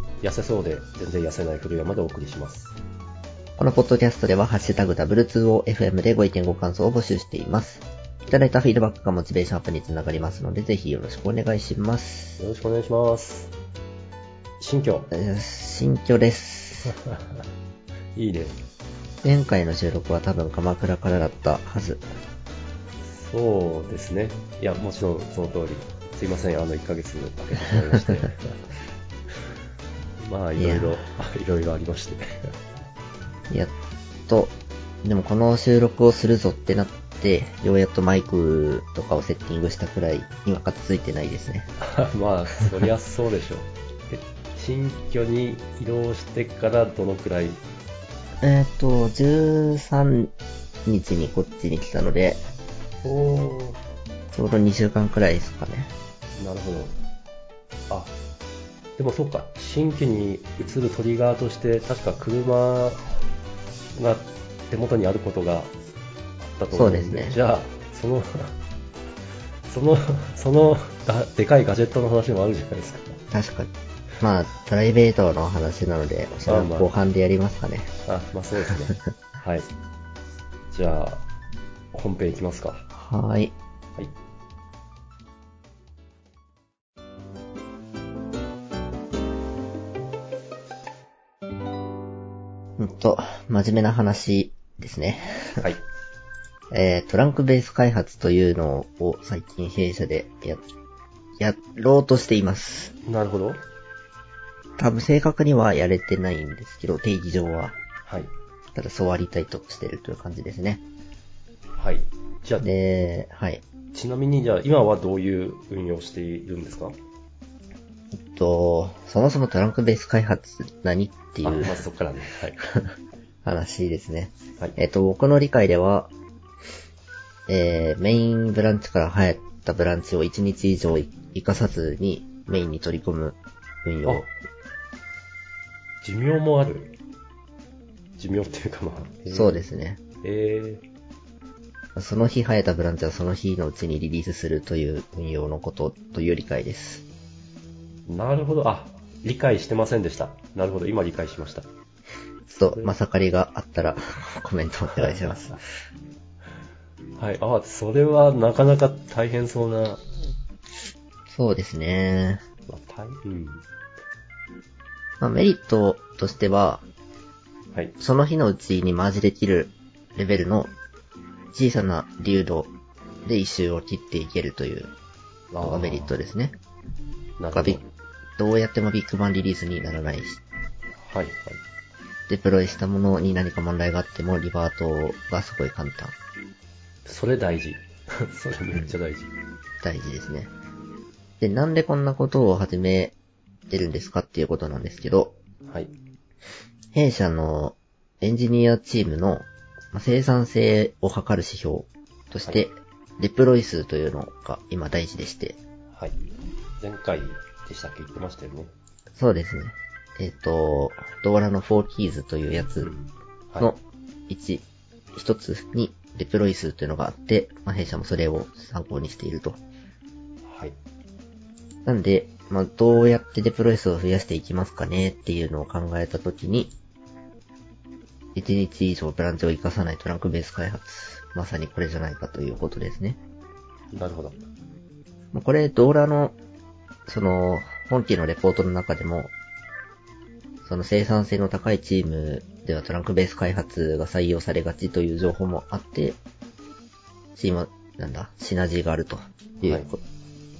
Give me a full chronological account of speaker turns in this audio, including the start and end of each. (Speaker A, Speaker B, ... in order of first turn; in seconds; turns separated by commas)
Speaker A: 0.2-2.8, Speaker B: 3.6-12.4, Speaker A: 12.4-13.5, Speaker A: 14.6-15.1, Speaker B: 15.1-16.9, Speaker A: 18.2-18.6, Speaker B: 19.2-22.1, Speaker A: 23.0-28.6, Speaker A: 30.2-32.5, Speaker B: 30.6-31.0, Speaker B: 34.3-41.7, Speaker A: 41.8-47.6, Speaker B: 48.4-50.3, Speaker B: 50.9-52.4, Speaker A: 53.0-53.8, Speaker B: 54.3-55.9, Speaker A: 56.4-57.0, Speaker A: 59.0-63.0, Speaker A: 64.0-65.7, Speaker A: 66.4-68.6, Speaker B: 66.7-67.4, Speaker A: 69.7-73.2, Speaker B: 73.3-77.9, Speaker A: 76.5-76.9, Speaker A: 78.1-79.7, Speaker A: 80.7-81.3, Speaker A: 81.9-82.8, Speaker B: 82.9-83.5, Speaker B: 92.8-95.7, Speaker B: 96.7-100.6, Speaker B: 101.4-102.9, Speaker A: 103.0-103.6, Speaker B: 104.8-107.8, Speaker A: 108.1-108.3, Speaker B: 108.8-110.8, Speaker A: 111.8-112.7, Speaker B: 112.6-113.6, Speaker A: 113.9-117.0, Speaker B: 118.2-121.8, Speaker A: 121.4-122.6, Speaker B: 123.4-126.1, Speaker B: 127.5-134.3, Speaker A: 136.0-136.9, Speaker A: 138.2-139.7, Speaker B: 139.3-140.0, Speaker A: 140.2-140.8, Speaker B: 142.0-147.1, Speaker A: 148.1-151.7, Speaker B: 152.5-155.6, Speaker A: 152.7-152.9, Speaker A: 157.2-160.0, Speaker B: 161.3-162.4, Speaker A: 162.7-163.6, Speaker B: 165.2-166.8, Speaker B: 168.0-170.7, Speaker B: 171.5-172.7, Speaker B: 173.3-174.9, Speaker A: 175.5-176.1, Speaker B: 175.6-176.6, Speaker A: 177.4-177.8, Speaker B: 177.5-177.8, Speaker B: 178.4-180.4, Speaker A: 181.0-181.6, Speaker B: 182.3-186.2, Speaker A: 187.1-189.3, Speaker B: 189.8-190.5, Speaker B: 191.4-193.2, Speaker B: 193.7-195.4, Speaker A: 195.7-195.9, Speaker B: 196.9-205.6, Speaker A: 205.9-206.2, Speaker A: 206.8-208.7, Speaker B: 209.2-212.9, Speaker A: 212.8-213.7, Speaker B: 213.6-219.6, Speaker A: 220.4-220.8, Speaker B: 221.8-226.7, Speaker B: 228.3-233.2, Speaker A: 233.9-234.4, Speaker B: 235.3-236.4, Speaker B: 237.1-239.3, Speaker B: 240.7-246.2, Speaker B: 247.3-250.0